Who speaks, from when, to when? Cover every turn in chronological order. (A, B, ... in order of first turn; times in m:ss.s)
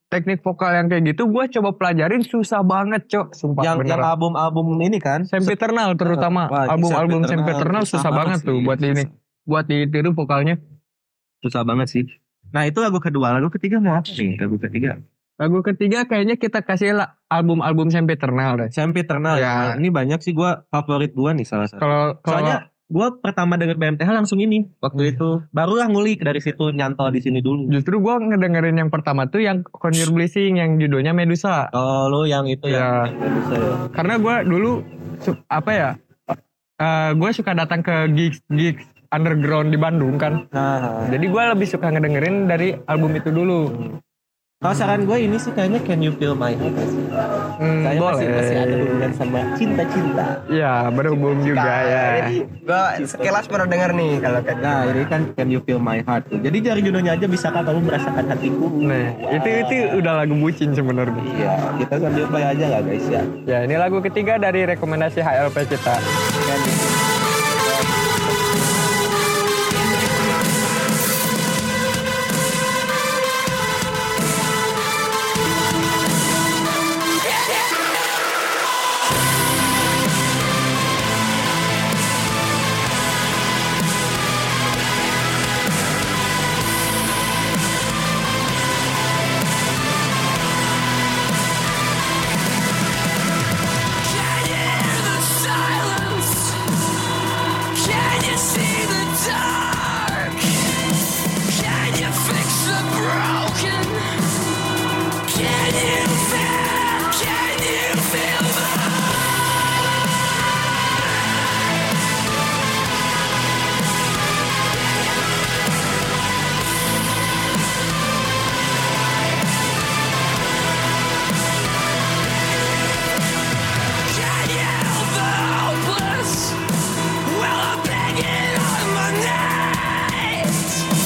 0:00.1-0:04.1 A
0:03.6-0:09.1 B
0:05.3-0:10.6 A
0:11.4-0:15.0 B
0:15.4-0:18.7 A
0:18.7-0:27.7 B
0:19.3-0:19.8 A
0:21.8-0:22.6 A
0:27.7-0:31.7 A
0:31.7-0:33.8 B
0:32.7-0:33.1 A
0:33.9-0:36.0 A
0:36.8-0:40.4 A
0:40.5-0:41.1 B
0:41.1-0:43.7 A
0:44.6-0:47.2 B
0:47.6-0:49.1 A
0:47.8-0:50.4 B
0:50.5-0:52.4 A
0:51.3-0:55.0 C
0:53.0-0:53.4 B
0:54.6-1:00.0 B
0:58.8-1:01.2 A
1:01.2-1:03.3 B
1:03.5-1:06.0 A
1:06.4-1:06.9 B
1:07.6-1:08.1 B
1:34.0-1:36.6 D
1:37.7-1:40.7 D
1:41.5-1:44.2 D
1:45.2-1:49.3 D
2:04.1-2:06.6 D
2:07.2-2:10.9 D